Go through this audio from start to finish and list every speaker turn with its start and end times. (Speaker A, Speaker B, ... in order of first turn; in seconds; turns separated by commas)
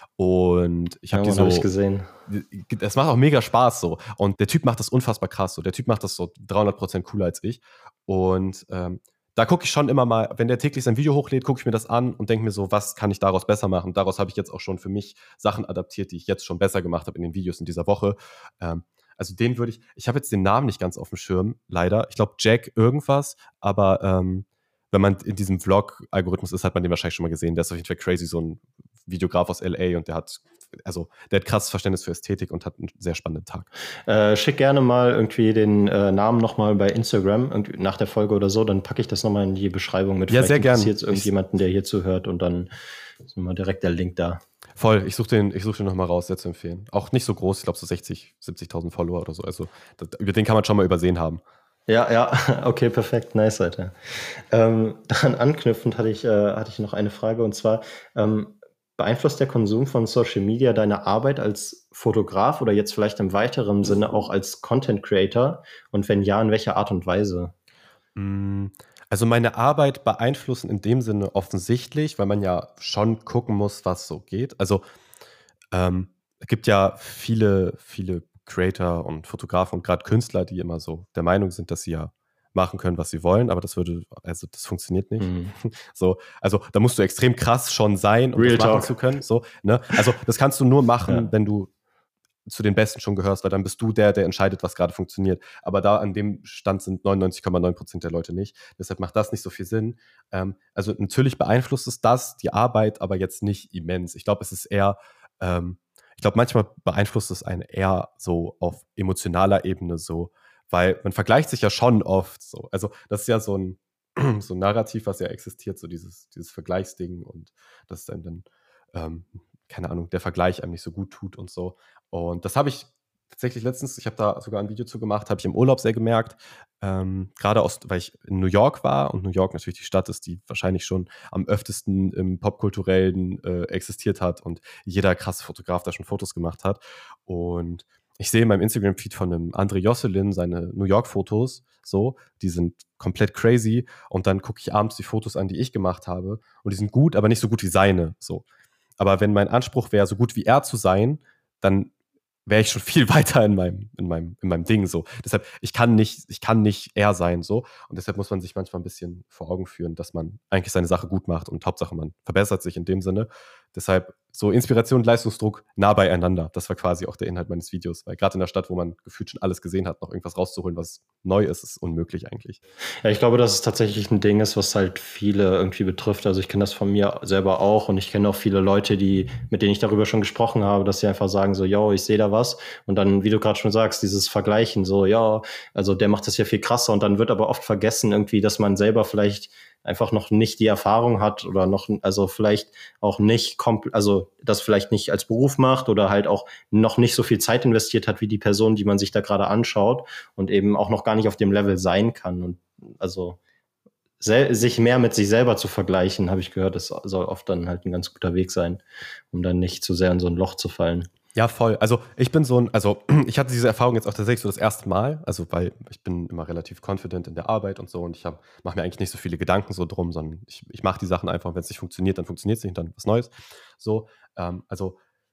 Speaker A: 0.2-1.6, Speaker B: 1.1-2.1, Speaker A: 2.3-33.7, Speaker B: 34.1-42.7, Speaker A: 40.3-41.3, Speaker B: 43.3-44.4, Speaker A: 44.8-51.4, Speaker B: 51.9-53.9, Speaker B: 54.5-67.5, Speaker A: 68.2-74.8, Speaker A: 75.7-91.7, Speaker B: 85.2-85.5, Speaker B: 88.4-88.9, Speaker A: 92.5-148.4, Speaker A: 149.0-151.9, Speaker A: 152.5-172.6, Speaker B: 173.0-203.4, Speaker B: 204.2-211.1, Speaker A: 211.3-225.0